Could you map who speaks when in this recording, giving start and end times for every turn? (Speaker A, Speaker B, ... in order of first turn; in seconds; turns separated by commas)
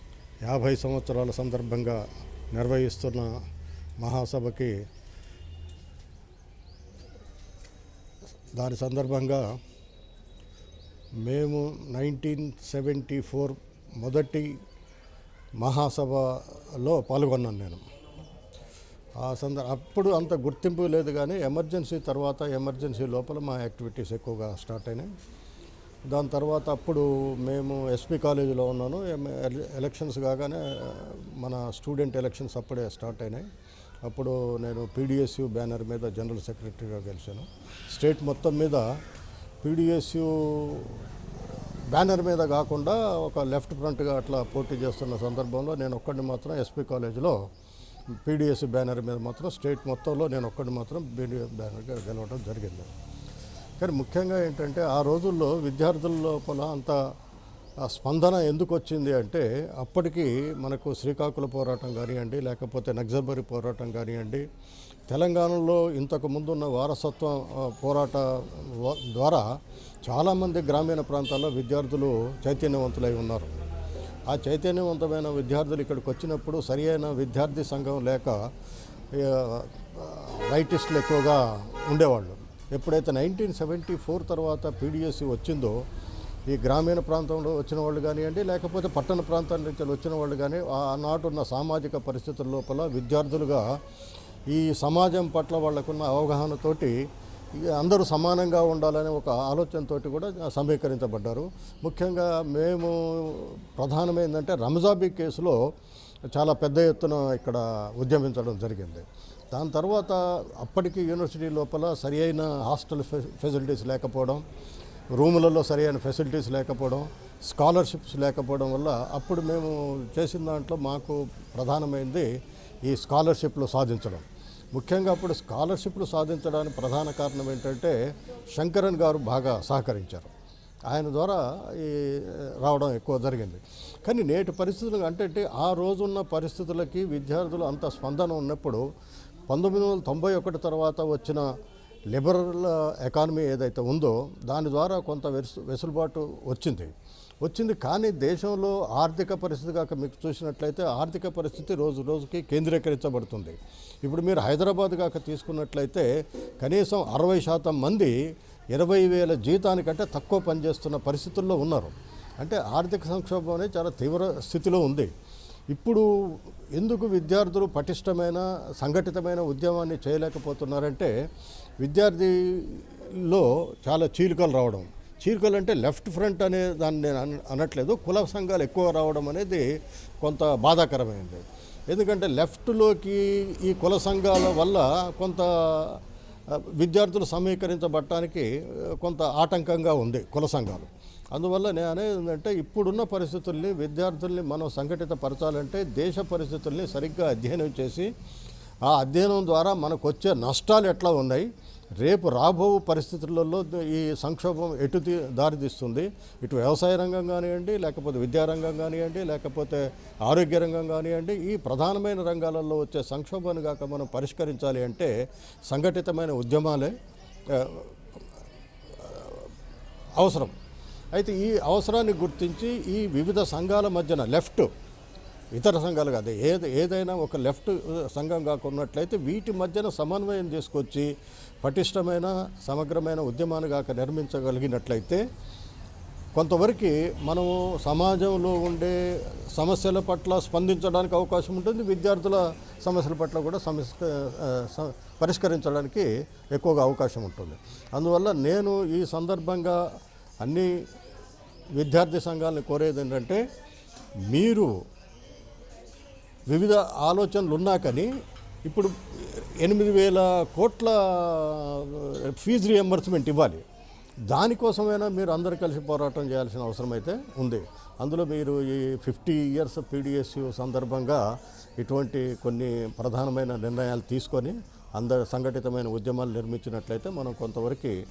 Speaker A: 0.4-2.0, Speaker A: 2.5-3.3, Speaker A: 4.0-4.7, Speaker A: 8.6-9.5, Speaker A: 11.2-14.5, Speaker A: 15.6-17.8, Speaker A: 19.2-25.1, Speaker A: 26.1-33.5, Speaker A: 34.0-38.8, Speaker A: 39.6-41.0, Speaker A: 41.9-47.4, Speaker A: 48.2-52.9, Speaker A: 53.8-57.0, Speaker A: 57.8-64.4, Speaker A: 65.1-69.5, Speaker A: 70.0-73.6, Speaker A: 74.3-78.4, Speaker A: 79.1-85.8, Speaker A: 86.5-93.6, Speaker A: 94.5-96.9, Speaker A: 97.6-105.6, Speaker A: 106.3-114.4, Speaker A: 115.1-122.3, Speaker A: 122.8-128.0, Speaker A: 128.5-130.3, Speaker A: 130.9-138.8, Speaker A: 139.5-141.4, Speaker A: 142.1-146.9, Speaker A: 147.4-156.1, Speaker A: 156.6-158.1, Speaker A: 158.7-165.1, Speaker A: 165.7-166.1, Speaker A: 166.8-171.1, Speaker A: 171.8-179.7, Speaker A: 180.2-198.1, Speaker A: 198.8-201.5, Speaker A: 202.0-215.1, Speaker A: 215.7-216.9, Speaker A: 217.5-217.9, Speaker A: 219.0-219.5, Speaker A: 220.2-220.5, Speaker A: 221.1-224.7, Speaker A: 225.5-231.1, Speaker A: 231.6-235.2, Speaker A: 236.3-239.0, Speaker A: 239.5-249.8, Speaker A: 250.4-250.7, Speaker A: 251.8-253.4, Speaker A: 254.3-254.7, Speaker A: 256.5-258.1, Speaker A: 258.6-263.6, Speaker A: 264.3-271.2, Speaker A: 271.8-277.9